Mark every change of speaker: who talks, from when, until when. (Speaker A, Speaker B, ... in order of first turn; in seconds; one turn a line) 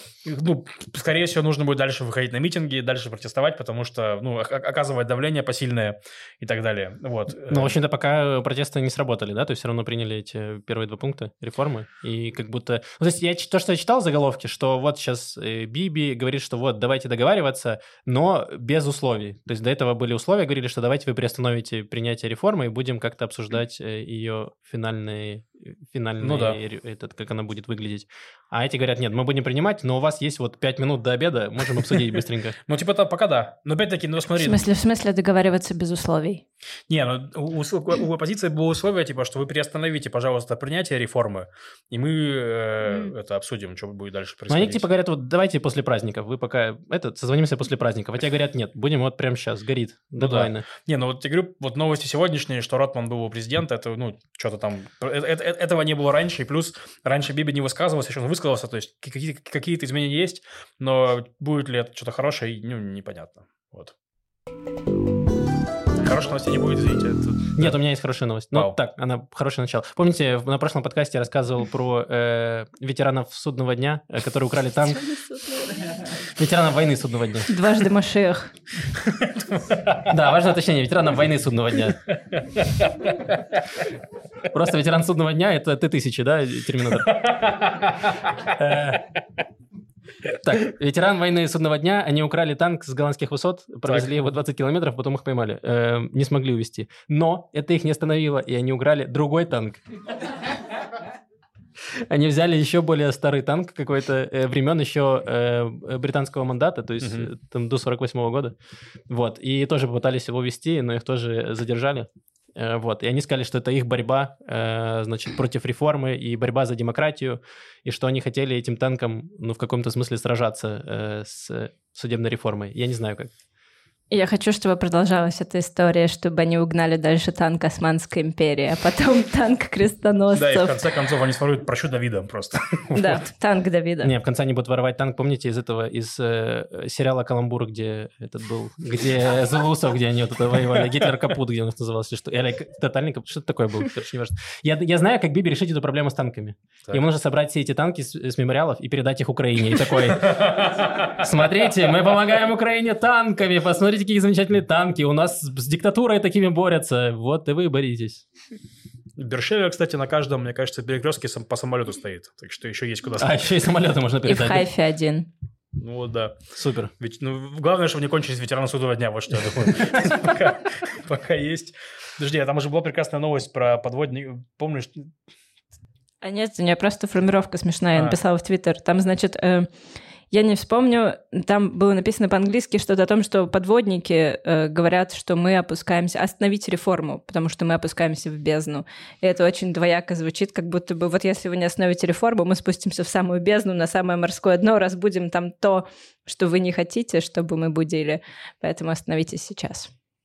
Speaker A: 0.2-7.8
Speaker B: 7.5-32.6
Speaker A: 26.2-26.6
Speaker A: 31.9-32.1
Speaker A: 32.7-34.6
Speaker C: 34.4-36.4
Speaker A: 36.9-44.9
Speaker B: 44.5-50.7
Speaker A: 50.2-64.0
Speaker A: 66.0-67.8
Speaker B: 67.6-75.2
Speaker C: 75.2-75.8
Speaker B: 76.1-77.5
Speaker C: 77.5-78.5
Speaker A: 78.9-80.0
Speaker B: 80.0-82.1
Speaker A: 82.3-83.4
Speaker B: 84.5-87.2
Speaker A: 87.2-88.2
Speaker B: 88.4-89.1
Speaker B: 90.4-99.8
Speaker B: 101.9-108.5
Speaker A: 107.0-107.3
Speaker B: 109.1-123.3
Speaker C: 124.1-130.8
Speaker A: 130.3-133.2
Speaker C: 132.9-134.1
Speaker B: 134.0-158.2
Speaker A: 150.1-151.2
Speaker A: 159.2-163.4
Speaker B: 163.2-164.7
Speaker C: 164.3-165.3
Speaker A: 165.8-166.4
Speaker B: 166.6-166.9
Speaker A: 167.0-175.1
Speaker C: 176.2-179.7
Speaker C: 180.3-199.9